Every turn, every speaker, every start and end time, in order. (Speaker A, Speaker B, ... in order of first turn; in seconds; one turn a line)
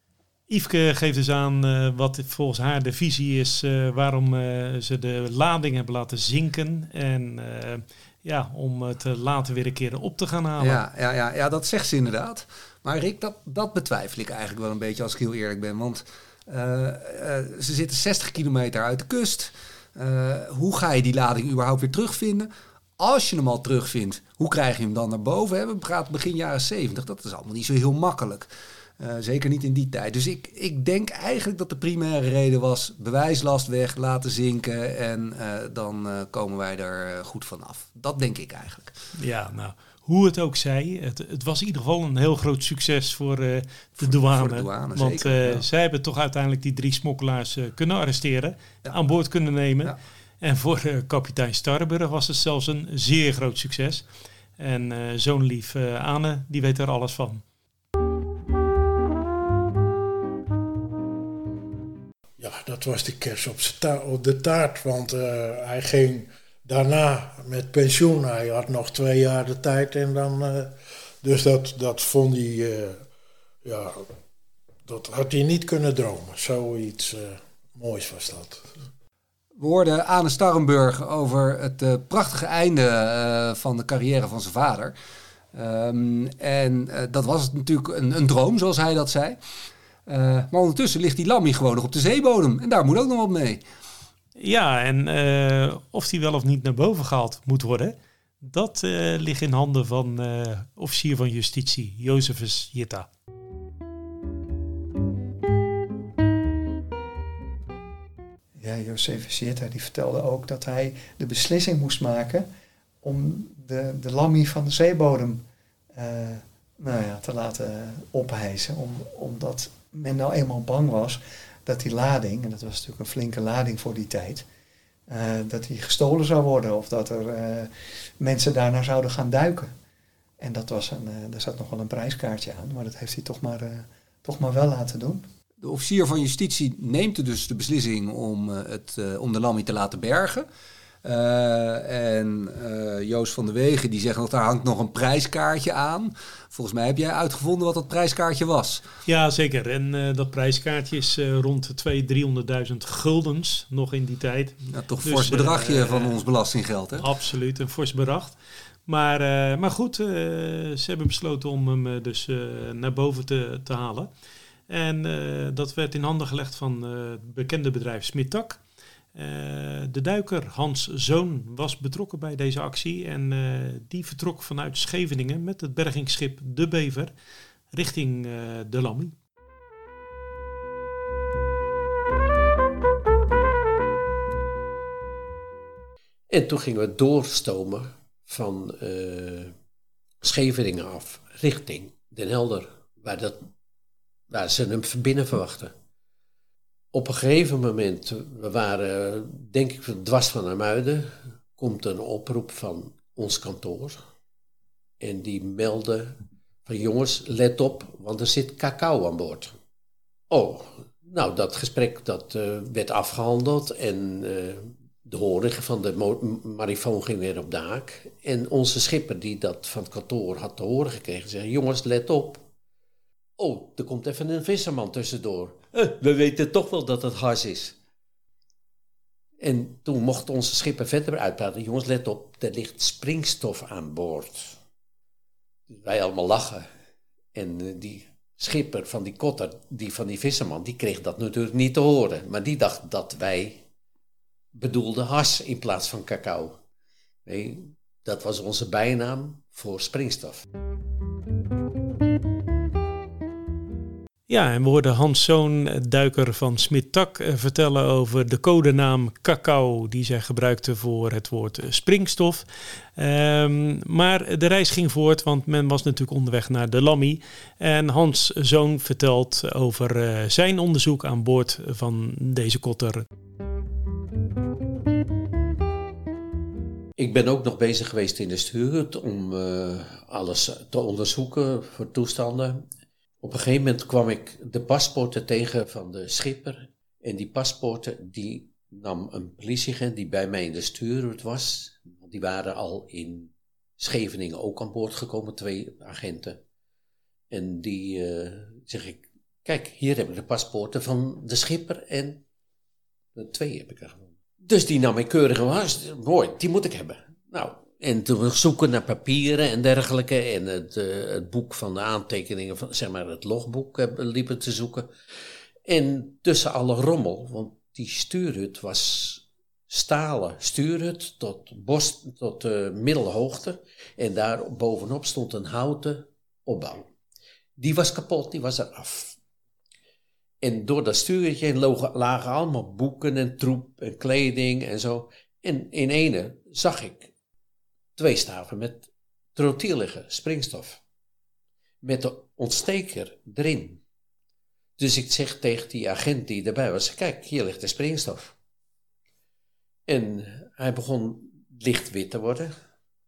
Speaker A: 0.5-10.8
Speaker B: 10.6-38.9
Speaker A: 39.2-54.1
Speaker B: 44.0-45.6
Speaker A: 54.6-57.4
Speaker C: 62.4-73.1
Speaker C: 73.6-74.1
Speaker C: 74.9-78.8
Speaker B: 79.6-85.0
Speaker B: 85.5-89.4
Speaker B: 90.1-93.7
Speaker A: 94.4-103.1
Speaker D: 108.6-112.5
Speaker D: 113.0-124.5
Speaker D: 125.1-129.7
Speaker D: 130.4-135.3
Speaker B: 135.6-140.5
Speaker B: 141.0-148.8
Speaker A: 149.1-156.2
Speaker B: 154.7-157.1
Speaker A: 157.0-164.1
Speaker A: 164.7-168.6
Speaker A: 169.2-177.1
Speaker A: 177.7-179.2
Speaker E: 186.3-189.5
Speaker E: 190.2-193.5
Speaker E: 194.3-195.7
Speaker E: 196.9-204.0
Speaker E: 205.0-209.6
Speaker E: 210.3-222.5
Speaker E: 223.4-227.8
Speaker E: 229.4-234.6
Speaker E: 235.7-236.7
Speaker E: 237.3-243.6
Speaker E: 244.6-246.6
Speaker E: 247.3-250.4
Speaker A: 254.3-273.1
Speaker E: 277.0-282.7
Speaker E: 283.2-296.4
Speaker E: 297.3-302.2
Speaker E: 303.2-314.9
Speaker E: 315.7-326.9
Speaker E: 327.6-329.2
Speaker E: 330.4-337.1
Speaker E: 338.0-340.8
Speaker E: 341.8-343.8
Speaker E: 344.8-348.4
Speaker E: 349.9-352.5